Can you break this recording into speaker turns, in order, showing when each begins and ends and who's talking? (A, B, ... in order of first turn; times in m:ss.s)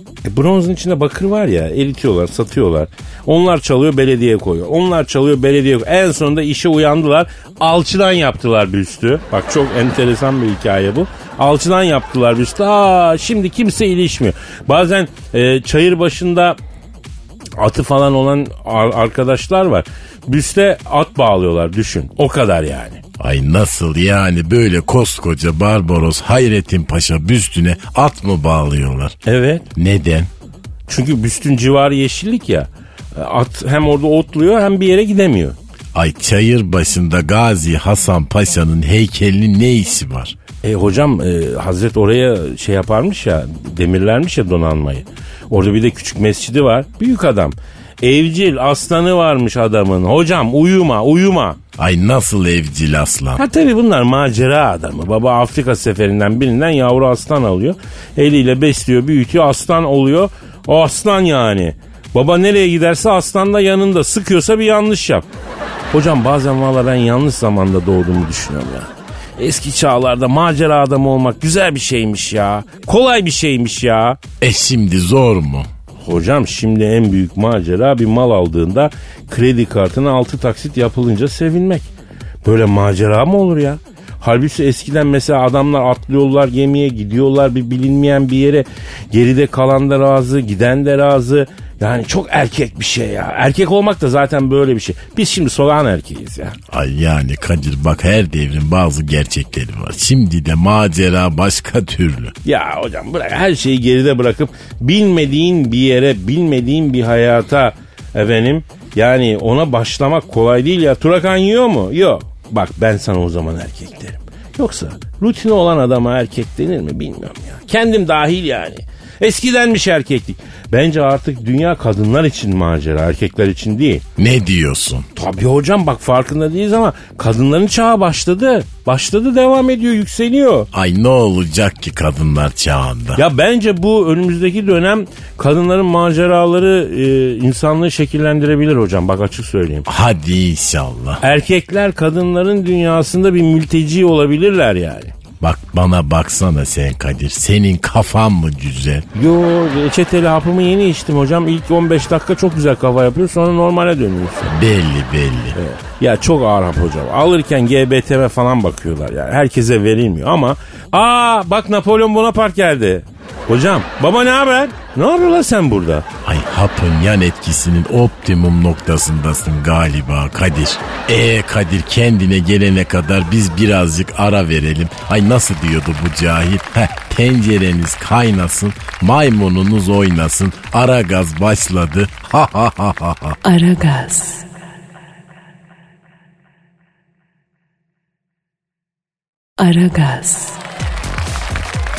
0:00.2-0:16.6 A
0:17.6-0:23.0 A
0:23.2-0:29.2 B
0:29.2-0:29.7 A
0:29.7-0:30.3 B
0:30.9-0:35.6 A
0:35.9-0:40.3 B
0:40.6-0:51.6 A
0:51.8-0:53.4 B
0:53.4-1:05.3 A
1:05.9-1:14.2 A
1:14.4-1:15.7 B
1:16.0-1:21.9 A
1:22.4-1:36.6 A
1:36.7-1:42.3 B
1:42.4-2:04.0 A
2:04.2-2:05.1 B
2:05.1-2:10.7 A
2:10.7-2:13.2 B
2:13.1-2:19.8 A
2:19.8-2:21.2 B
2:21.2-2:25.1 A
2:25.4-2:29.0 B
2:29.1-2:34.5 A
2:34.4-2:35.6 B
2:35.5-2:46.0 A
2:46.2-3:03.4 B
3:03.4-3:04.4 C
3:09.6-3:10.6 C